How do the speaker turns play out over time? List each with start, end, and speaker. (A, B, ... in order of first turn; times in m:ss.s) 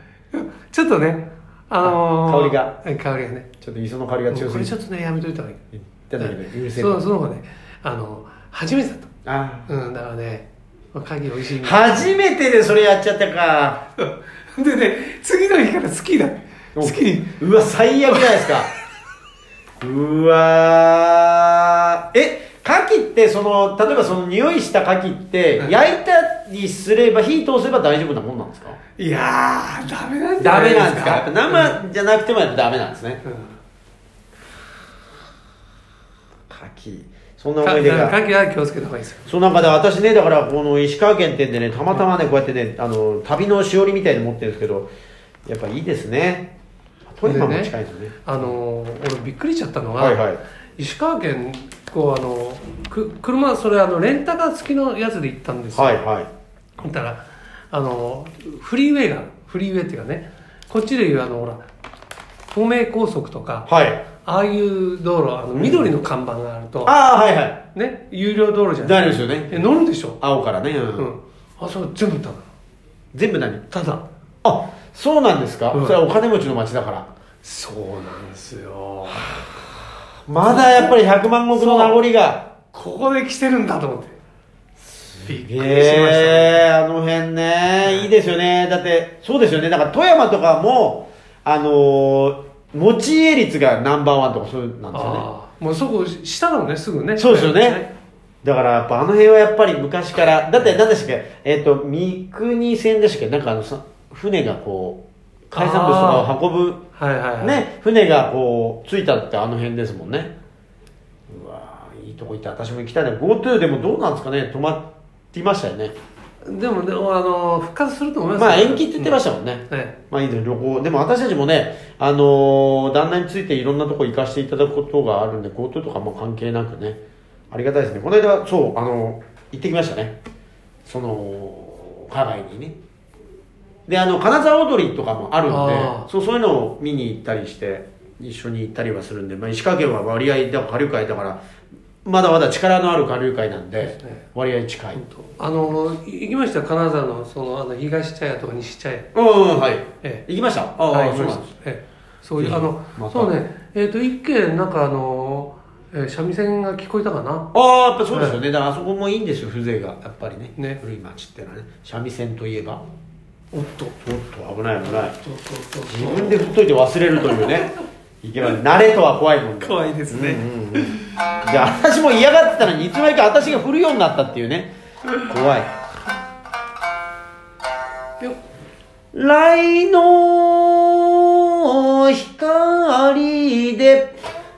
0:00.3-0:03.5 A
0:01.8-0:02.7 B
0:03.6-0:04.7 B
0:04.3-0:05.6 A
0:05.7-0:07.0 B
0:06.2-0:09.1 A
0:09.2-0:09.7 B
0:09.7-0:12.1 A
0:11.6-0:13.8 B
0:14.0-0:17.4 A
0:16.8-0:18.7 B
0:18.1-0:18.5 A
0:19.8-0:28.8 B
0:29.0-0:31.8 A
0:30.4-0:33.2 B
0:33.2-0:33.6 A
0:36.5-0:38.2 B
0:37.6-0:39.3 A
0:39.3-0:44.9 B
0:45.5-0:46.5 B
0:47.1-0:48.5 B
0:47.2-0:47.7 A
0:48.2-0:50.2 A
0:50.0-0:50.4 B
0:50.8-0:56.0 A
0:55.8-0:56.3 B
0:56.8-1:01.6 A
1:02.5-1:03.7 A
1:03.7-1:04.0 B
1:04.2-1:07.0 A
1:05.6-1:05.9 B
1:06.8-1:07.6 B
1:07.8-1:10.2 A
1:08.8-1:09.7 B
1:10.2-1:11.1 B
1:11.0-1:12.5 A
1:13.1-1:13.6 B
1:13.7-1:14.0 A
1:14.4-1:17.1 B
1:15.7-1:16.0 A
1:17.4-1:19.5 A
1:20.3-1:22.5 B
1:20.4-1:21.0 A
1:21.5-1:22.0 A
1:22.7-1:24.2 A
1:25.0-1:35.3 B
1:25.2-1:26.6 A
1:34.9-1:37.9 A
1:37.2-1:37.8 B
1:38.4-1:46.8 B
1:45.6-1:46.3 A
1:47.0-1:47.6 A
1:47.4-1:50.3 B
1:51.3-1:56.0 B
1:56.4-2:00.0 A
1:58.4-2:07.0 B
2:07.5-2:10.2 B
2:10.9-2:12.8 B
2:13.9-2:21.4 B
2:15.5-2:16.1 A
2:22.0-2:25.0 B
2:23.8-2:24.2 A
2:25.0-2:29.1 A
2:29.1-2:31.5 B
2:30.9-2:37.5 A
2:32.4-2:33.3 B
2:37.5-2:42.8 B
2:38.1-2:38.4 A
2:43.5-2:44.0 A
2:44.0-2:45.2 B
2:44.8-2:46.5 A
2:45.9-2:55.7 B
2:49.6-2:51.4 A
2:59.1-3:04.2 B